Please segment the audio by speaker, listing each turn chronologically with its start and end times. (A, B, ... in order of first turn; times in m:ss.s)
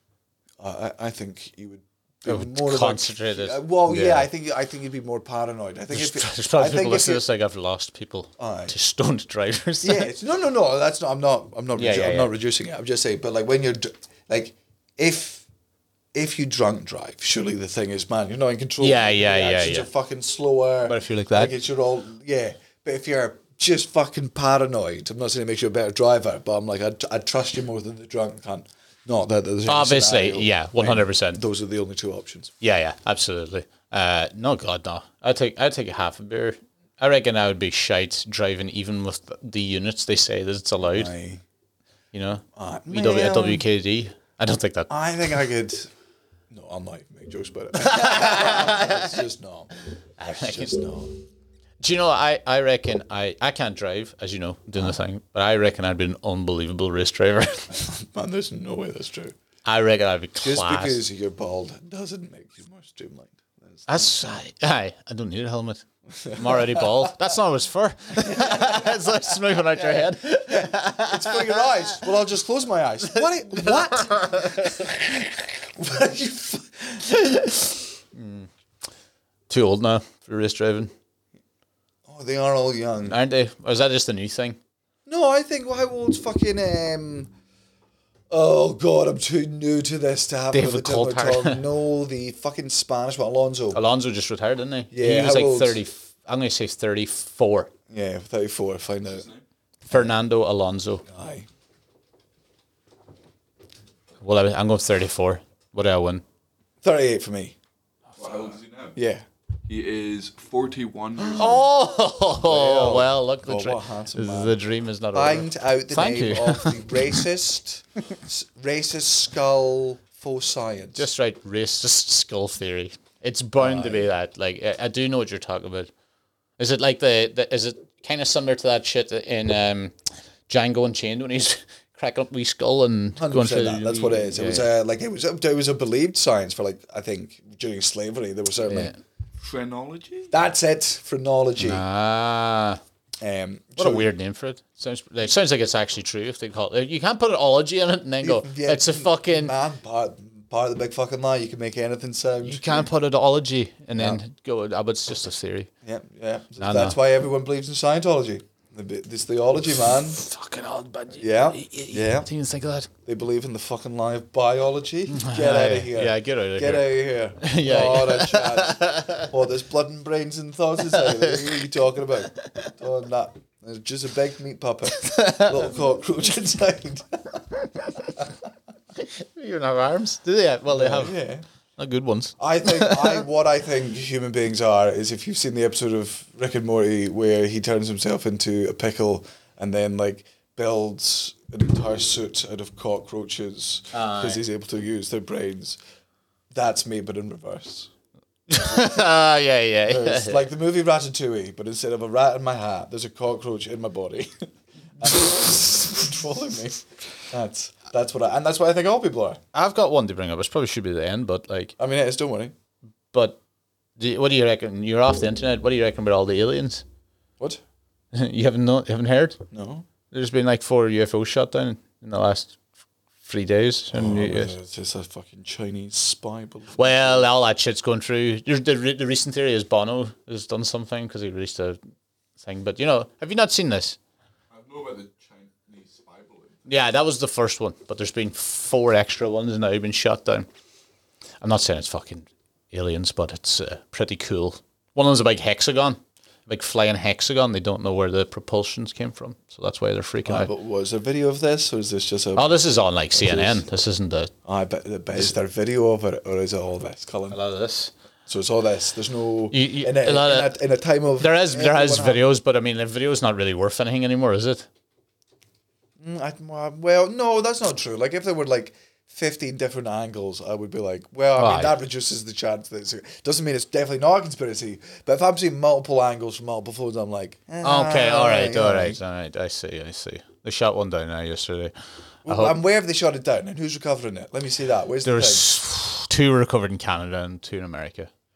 0:00.6-0:07.2 A
0:02.2-0:04.3 B
0:05.9-0:10.1 B
0:08.4-0:08.7 A
0:09.8-0:15.4 A
0:11.8-0:12.3 B
0:16.1-0:32.5 A
0:18.8-0:19.9 B
0:20.8-0:21.5 B
0:29.7-0:31.4 B
0:32.6-0:41.1 B
0:40.8-0:41.4 A
0:42.1-0:44.9 B
0:42.6-0:43.6 A
0:44.9-0:45.9 A
0:46.5-0:49.7 A
0:47.7-0:49.2 B
0:50.2-0:50.8 B
0:50.3-0:51.1 A
0:51.8-0:57.7 B
0:57.7-0:59.3 A
0:59.6-1:01.0 B
1:00.4-1:04.1 A
1:03.9-1:11.9 B
1:06.1-1:07.2 A
1:08.2-1:08.9 A
1:09.7-1:17.1 A
1:13.1-1:14.8 B
1:18.1-1:18.5 B
1:19.5-1:20.9 B
1:22.1-1:23.2 A
1:23.0-1:24.6 B
1:25.1-1:27.3 A
1:28.3-1:33.8 A
1:30.5-1:31.6 B
1:33.7-1:37.7 B
1:34.9-1:35.8 A
1:37.9-1:39.2 A
1:39.1-1:39.4 C
1:39.8-1:41.0 B
1:41.1-1:41.5 A
1:44.2-1:46.2 B
1:46.8-1:47.5 A
1:48.2-1:49.0 C
1:48.9-1:49.2 A
1:49.7-1:51.6 C
1:51.3-1:57.2 B
1:52.4-1:54.6 A
1:55.1-2:01.1 A
2:00.9-2:05.9 B
2:03.6-2:04.1 A
2:06.6-2:09.9 B
2:10.5-2:14.7 B
2:13.2-2:18.9 A
2:18.6-2:19.0 B
2:19.4-2:20.3 C
2:20.3-2:21.8 A
2:21.6-2:22.8 B
2:23.2-2:24.1 A
2:23.8-2:29.5 B
2:28.2-2:32.9 A
2:32.4-2:35.7 B
2:33.9-2:34.2 A
2:35.8-2:40.2 A
2:36.6-2:37.0 B
2:39.8-2:42.9 B
2:41.2-2:42.3 A
2:43.0-2:57.4 A
2:45.1-2:49.3 B
2:50.9-2:51.6 B
2:55.0-2:55.7 B
2:59.0-3:01.2 B
3:00.7-3:01.4 A
3:01.8-3:03.2 B
3:02.4-3:15.8 A
3:13.9-3:14.4 B
3:16.5-3:17.9 A
3:18.5-3:20.5 B
3:19.8-3:29.4 A
3:29.5-3:31.7 B
3:31.8-3:32.5 A
3:33.1-3:33.4 B
3:34.0-3:36.8 B
3:38.1-3:39.4 B
3:39.5-3:39.8 A
3:40.1-3:42.6 B
3:43.2-3:44.5 B
3:43.9-3:47.3 A
3:46.8-3:51.8 B
3:52.4-3:54.0 B
3:54.5-3:56.7 C
3:56.7-4:00.5 B
4:01.4-4:10.5 B
4:10.2-4:12.5 A
4:12.4-4:14.3 B
4:13.1-4:13.6 A
4:14.4-4:17.4 A
4:17.3-4:17.9 B
4:18.3-4:22.2 A
4:19.5-4:20.6 B
4:21.2-4:24.7 B
4:26.0-4:39.0 A
4:31.4-4:31.7 B
4:37.6-4:41.7 B
4:42.2-4:42.6 B
4:42.2-4:45.5 A
4:45.0-4:48.1 B